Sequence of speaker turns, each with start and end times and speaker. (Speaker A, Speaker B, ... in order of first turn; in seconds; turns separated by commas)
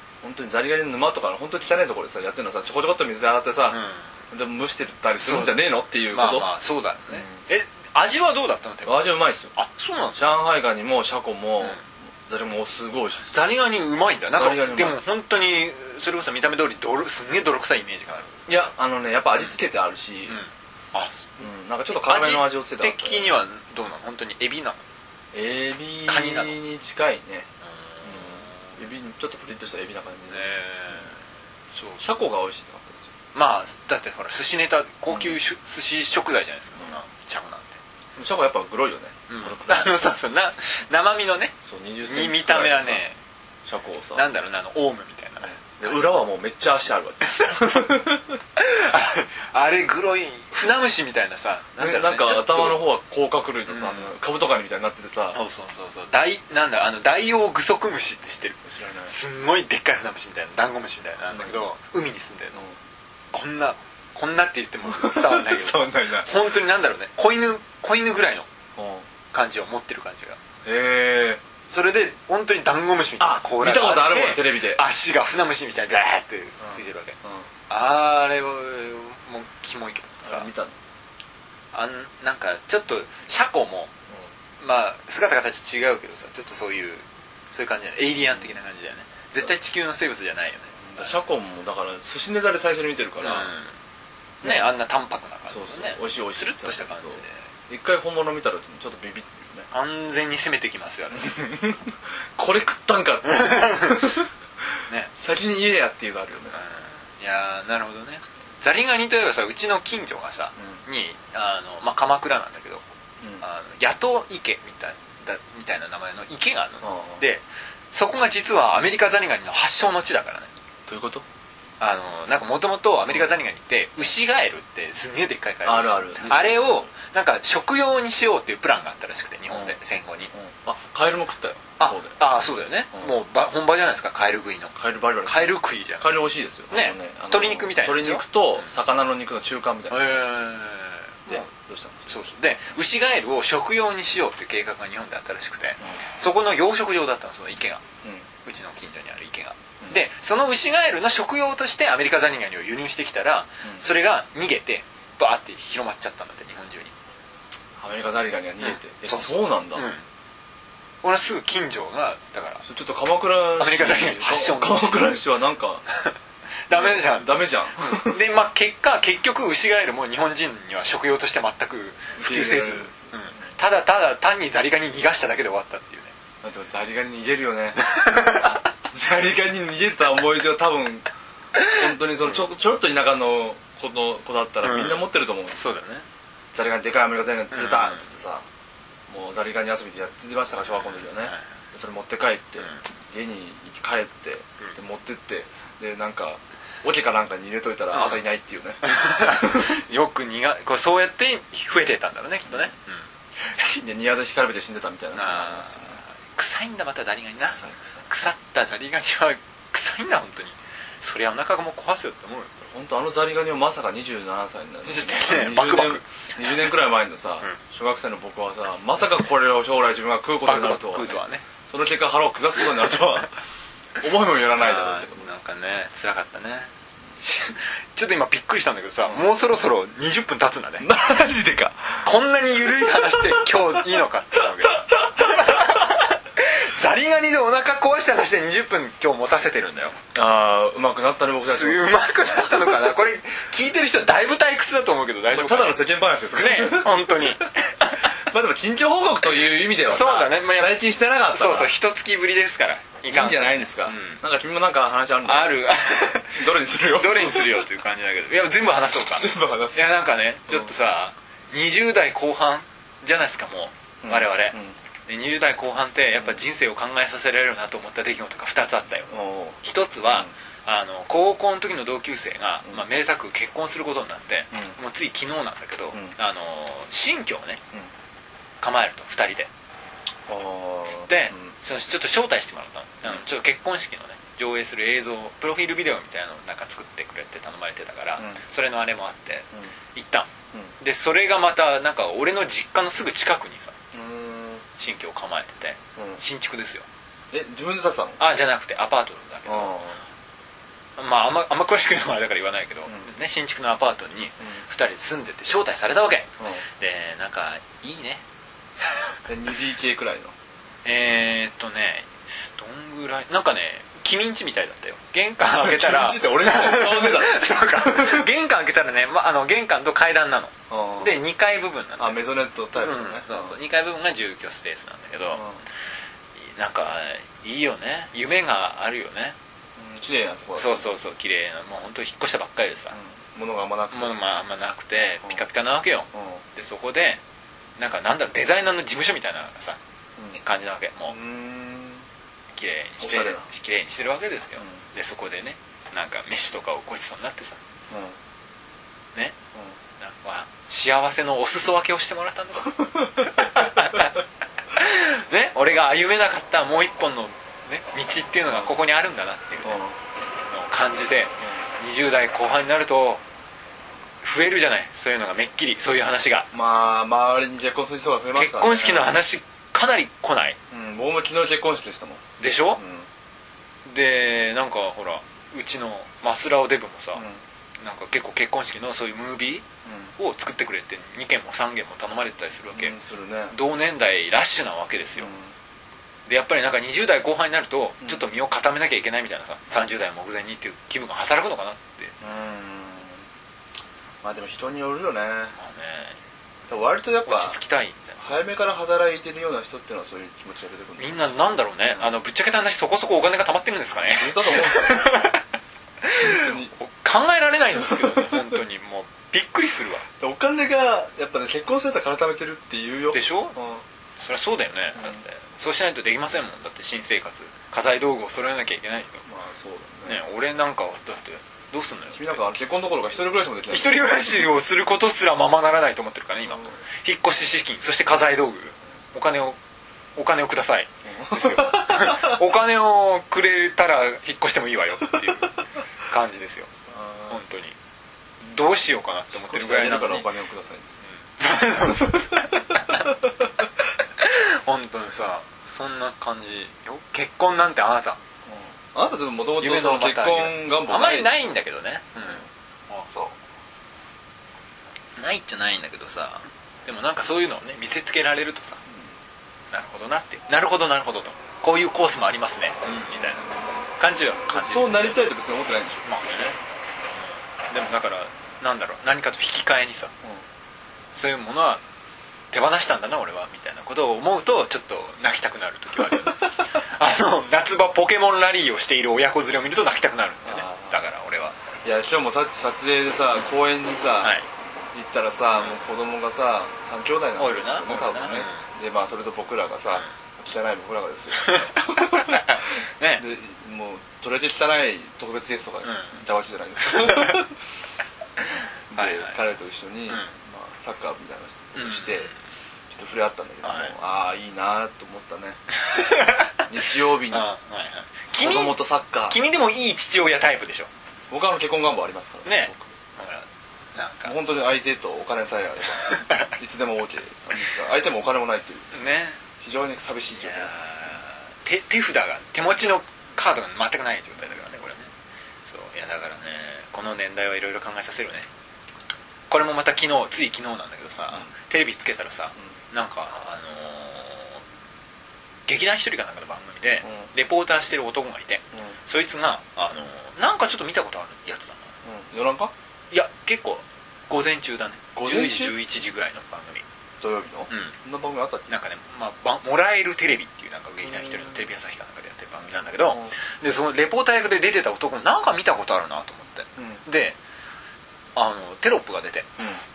Speaker A: 0.2-6.5, Speaker B: 3.7-4.1, Speaker B: 5.2-10.3, Speaker A: 7.1-7.4, Speaker A: 8.9-9.5, Speaker A: 10.1-13.3, Speaker B: 13.3-18.5, Speaker A: 14.3-15.0, Speaker A: 18.5-20.4, Speaker B: 20.3-21.4, Speaker A: 21.4-23.3, Speaker B: 22.0-24.8, Speaker A: 25.3-27.5, Speaker B: 26.1-26.6, Speaker B: 27.7-28.7, Speaker A: 28.0-30.5, Speaker B: 30.3-31.2, Speaker B: 31.8-32.1, Speaker A: 32.0-33.1, Speaker B: 33.3-37.8, Speaker A: 38.1-40.0, Speaker B: 39.3-41.5, Speaker A: 41.6-43.0, Speaker B: 42.1-43.2, Speaker A: 43.6-44.2, Speaker B: 44.1-46.0, Speaker A: 45.4-48.4, Speaker B: 47.3-47.9, Speaker B: 48.6-52.9, Speaker A: 51.8-55.4, Speaker B: 53.7-54.1, Speaker B: 55.3-62.6, Speaker A: 58.6-59.1, Speaker A: 61.3-61.6, Speaker B: 63.3-68.5, Speaker A: 64.8-66.3, Speaker A: 68.8-69.0, Speaker B: 69.3-70.4, Speaker A: 70.6-71.4, Speaker B: 71.7-77.2, Speaker A: 73.2-74.8, Speaker A: 76.6-77.5, Speaker B: 77.7-80.5, Speaker A: 80.2-80.8, Speaker B: 81.7-83.9, Speaker B: 84.6-91.1, Speaker A: 90.8-93.5, Speaker B: 93.2-93.7, Speaker A: 94.4-94.7, Speaker B: 94.4-97.4, Speaker A: 95.5-99.7, Speaker B: 99.7-101.4, Speaker A: 101.1-104.3, Speaker B: 103.3-104.2, Speaker A: 105.2-106.6, Speaker B: 106.5-112.8, Speaker B: 113.4-120.5, Speaker A: 116.8-117.2, Speaker A: 120.9-121.2, Speaker B: 121.8-130.3, Speaker A: 125.6-126.8, Speaker A: 129.5-129.8, Speaker A: 130.3-132.1, Speaker B: 131.8-138.7, Speaker A: 134.8-140.4, Speaker B: 139.9-141.5, Speaker A: 141.3-142.2, Speaker B: 142.1-147.8, Speaker B: 148.4-156.9, Speaker A: 157.8-159.9, Speaker B: 158.6-160.1, Speaker B: 161.0-162.6, Speaker A: 162.6-165.8, Speaker B: 163.6-165.2, Speaker B: 166.7-176.1, Speaker A: 166.7-168.2, Speaker A: 172.2-173.1, Speaker A: 176.4-177.8, Speaker B: 177.8-178.6, Speaker A: 178.4-181.1, Speaker B: 181.6-182.4, Speaker A: 181.7-185.6, Speaker B: 184.6-186.0, Speaker A: 186.5-188.5, Speaker B: 187.5-188.0, Speaker A: 189.1-199.8, Speaker B: 190.7-191.4, Speaker B: 197.9-198.2, Speaker B: 198.8-203.8, Speaker A: 203.8-206.0, Speaker B: 205.1-212.7, Speaker A: 207.5-208.1, Speaker A: 212.7-223.4, Speaker B: 214.8-216.5, Speaker B: 220.4-221.4, Speaker A: 224.0-225.3, Speaker B: 224.6-226.7, Speaker B: 227.2-230.9, Speaker A: 230.8-232.1, Speaker B: 232.0-240.0, Speaker A: 232.8-233.8, Speaker A: 234.3-235.8, Speaker A: 240.1-242.9, Speaker B: 241.5-248.1, Speaker A: 245.3-247.5, Speaker A: 248.0-251.7, Speaker B: 249.3-250.8, Speaker B: 251.3-254.2, Speaker A: 253.1-255.7, Speaker B: 255.2-264.6, Speaker A: 256.2-257.6, Speaker A: 259.1-259.8, Speaker A: 264.0-264.8, Speaker B: 265.1-277.6, Speaker A: 269.1-270.3, Speaker B: 278.6-279.5, Speaker A: 280.3-281.5, Speaker B: 280.9-290.3, Speaker B: 290.8-293.8, Speaker A: 293.9-294.6, Speaker B: 294.8-296.9, Speaker A: 297.3-298.2, Speaker B: 298.2-299.8, Speaker A: 299.5-300.0, Speaker B: 301.0-308.2, Speaker A: 309.3-310.3, Speaker B: 310.8-325.4, Speaker A: 315.4-318.3, Speaker A: 320.7-321.2, Speaker A: 322.0-323.5, Speaker A: 325.3-325.6, Speaker B: 326.4-329.4, Speaker A: 329.8-330.9, Speaker B: 330.6-333.0, Speaker A: 333.0-334.1, Speaker B: 333.9-337.2, Speaker A: 336.1-336.4, Speaker B: 337.8-339.8, Speaker B: 340.3-341.2, Speaker A: 341.1-342.0, Speaker B: 342.5-347.6, Speaker A: 343.0-343.4, Speaker A: 347.9-348.2, Speaker B: 350.0-354.2, Speaker A: 352.8-353.7, Speaker B: 354.7-359.8, Speaker A: 359.6-360.0, Speaker B: 360.5-363.2, Speaker B: 364.2-366.5, Speaker A: 366.5-369.1, Speaker B: 368.3-370.6, Speaker A: 370.7-372.2, Speaker B: 372.4-372.8, Speaker A: 372.8-373.1, Speaker B: 373.8-377.2, Speaker A: 377.1-377.4, Speaker B: 377.8-379.6, Speaker A: 379.8-380.1, Speaker B: 380.2-383.0, Speaker A: 382.8-383.5, Speaker B: 383.5-385.3, Speaker A: 385.2-385.5, Speaker B: 386.3-392.1, Speaker A: 392.2-393.2, Speaker A: 394.2-395.5, Speaker B: 395.6-396.2, Speaker A: 396.7-397.6, Speaker B: 397.2-398.2, Speaker A: 398.2-401.2, Speaker B: 401.0-405.4, Speaker A: 404.1-405.2, Speaker B: 406.0-410.1, Speaker A: 406.1-406.7, Speaker A: 407.8-408.4, Speaker A: 410.2-413.8, Speaker B: 413.1-413.5, Speaker B: 414.2-419.2, Speaker A: 419.2-420.2, Speaker B: 420.1-422.4, Speaker A: 422.1-424.0, Speaker B: 423.7-429.6, Speaker B: 430.1-436.7, Speaker A: 431.1-432.4, Speaker A: 436.9-437.4, Speaker B: 437.3-437.8, Speaker B: 438.4-440.3, Speaker A: 439.3-440.9, Speaker B: 441.2-443.3, Speaker B: 444.0-448.2, Speaker A: 448.5-451.4, Speaker B: 449.6-453.3, Speaker B: 455.2-458.8, Speaker B: 459.7-465.2, Speaker A: 463.0-463.3, Speaker A: 464.5-466.0, Speaker B: 466.0-466.6, Speaker B: 467.7-470.1, Speaker B: 471.1-471.8, Speaker B: 472.5-481.6, Speaker A: 480.5-481.0, Speaker A: 481.8-484.4, Speaker B: 484.2-484.5, Speaker A: 484.9-497.6, Speaker B: 487.4-488.7, Speaker B: 491.4-493.2, Speaker B: 495.8-496.2, Speaker B: 496.9-497.4, Speaker A: 498.9-502.3, Speaker B: 498.9-499.4, Speaker B: 500.1-500.3, Speaker B: 501.8-502.4, Speaker A: 502.9-505.6, Speaker B: 503.6-503.9, Speaker B: 505.8-506.6, Speaker A: 506.7-507.5, Speaker B: 507.3-510.9, Speaker A: 508.3-509.4, Speaker A: 511.3-513.0, Speaker B: 512.5-514.3, Speaker A: 514.2-519.0, Speaker B: 516.1-516.5, Speaker B: 518.9-519.4, Speaker A: 519.6-521.2, Speaker B: 520.3-525.1, Speaker B: 525.6-528.5, Speaker B: 529.5-534.6, Speaker B: 535.7-541.9, Speaker A: 542.0-542.7, Speaker B: 543.1-546.8, Speaker A: 545.1-545.8, Speaker A: 547.2-548.7, Speaker B: 547.7-548.0, Speaker B: 548.7-557.4, Speaker A: 553.0-553.3, Speaker A: 556.8-557.0, Speaker B: 558.4-559.5